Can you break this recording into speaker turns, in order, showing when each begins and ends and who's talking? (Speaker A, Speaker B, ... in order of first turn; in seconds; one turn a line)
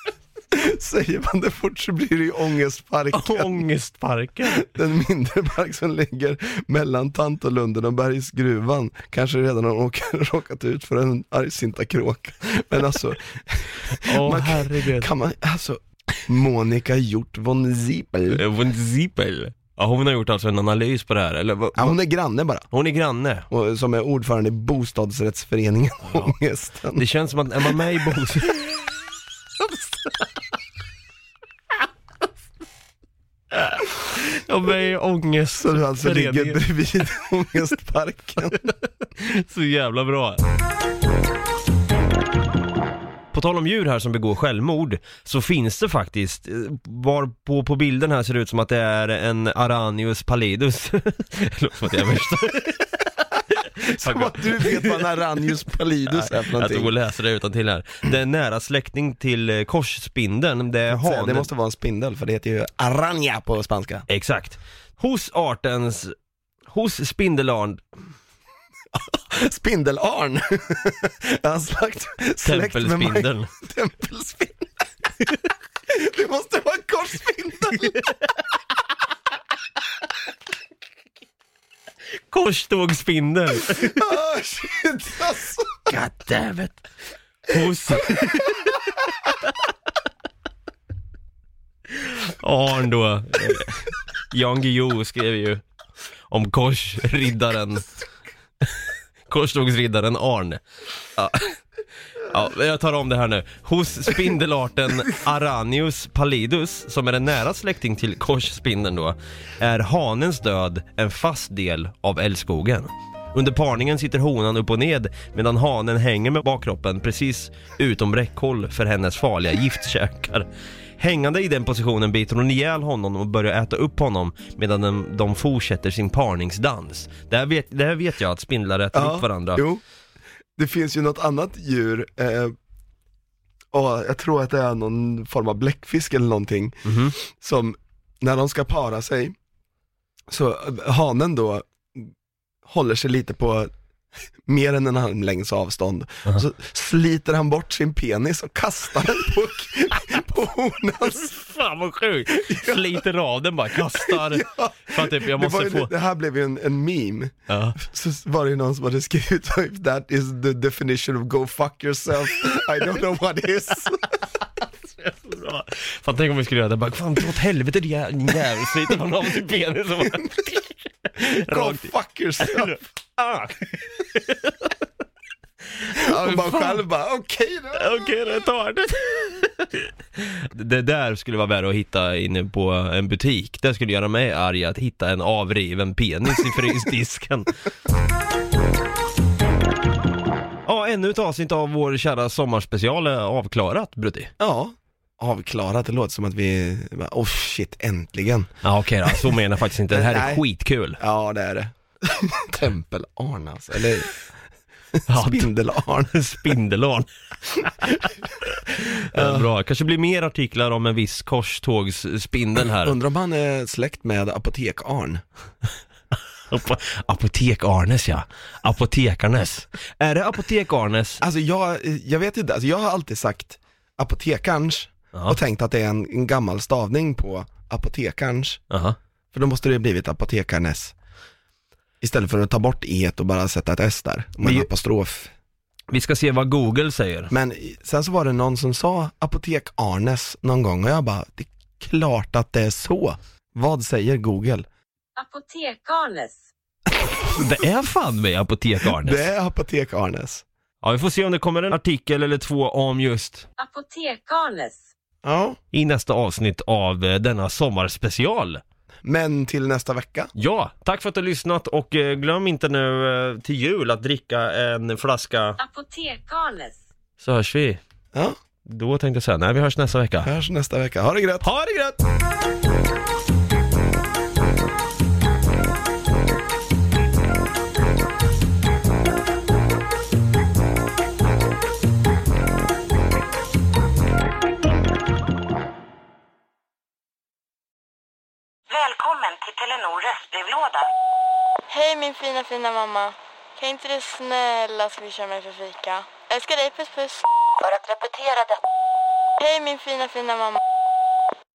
Speaker A: 0.5-3.6
Speaker B: 3.1-4.7
Speaker A: 4.5-18.4
Speaker B: 14.0-15.1
Speaker B: 18.3-21.9
Speaker A: 21.8-22.6
Speaker B: 22.7-23.4
Speaker A: 23.5-27.1
Speaker B: 26.9-28.8
Speaker B: 29.6-29.9
Speaker B: 33.5-36.6
Speaker A: 35.6-38.7
Speaker B: 38.5-40.4
Speaker B: 43.3-53.1
Speaker B: 53.6-55.5
Speaker A: 53.8-56.9
Speaker B: 56.1-61.5
Speaker A: 60.9-64.0
Speaker B: 64.1-66.1
Speaker B: 66.7-67.8
Speaker A: 69.0-74.8
Speaker B: 72.4-73.5
Speaker A: 75.9-78.0
Speaker B: 82.3-84.1
Speaker A: 83.6-85.9
Speaker B: 85.9-86.8
Speaker B: 87.4-88.8
Speaker A: 88.0-88.7
Speaker B: 91.9-95.6
Speaker B: 96.3-97.9
Speaker B: 98.6-100.6
Speaker B: 101.1-101.6
Speaker B: 102.2-120.5
Speaker B: 121.0-129.6
Speaker A: 128.9-129.8
Speaker A: 130.6-132.5
Speaker A: 133.7-139.3
Speaker B: 136.8-137.1
Speaker A: 140.3-142.1
Speaker A: 142.7-143.7
Speaker A: 144.4-151.3
Speaker B: 151.2-155.9
Speaker A: 152.4-153.0
Speaker A: 153.8-164.1
Speaker B: 157.5-157.8
Speaker B: 164.9-171.9
Speaker A: 171.2-172.8
Speaker B: 172.4-174.7
Speaker B: 175.8-176.8
Speaker A: 175.9-178.0
Speaker B: 177.7-187.5
Speaker B: 190.7-194.3
Speaker A: 194.4-198.5
Speaker B: 198.6-201.0
Speaker A: 199.1-199.3
Speaker A: 199.9-200.4
Speaker A: 201.0-204.2
Speaker A: 204.9-206.3
Speaker B: 205.1-213.0
Speaker A: 209.1-209.4
Speaker A: 212.8-215.2
Speaker B: 216.5-221.2
Speaker A: 221.2-228.6
Speaker B: 225.1-225.4
Speaker B: 228.7-229.0
Speaker A: 229.3-230.9
Speaker A: 232.0-235.3
Speaker B: 234.4-234.7
Speaker B: 235.9-237.3
Speaker A: 237.3-244.7
Speaker C: 245.2-246.4
Speaker A: 246.9-247.4
Speaker B: 247.3-249.2
Speaker A: 248.9-250.4
Speaker B: 250.8-253.5
Speaker C: 253.6-254.8
Speaker A: 255.2-255.6
Speaker B: 255.7-258.6
Speaker A: 259.0-260.3
Speaker B: 260.4-265.6
Speaker C: 265.6-266.8
Speaker B: 267.2-267.8
Speaker B: 268.6-270.3
Speaker A: 270.2-271.4
Speaker B: 271.4-272.0
Speaker D: 288.7-290.9
Speaker E: 291.7-297.2
Speaker D: 297.6-298.6
Speaker E: 299.4-300.6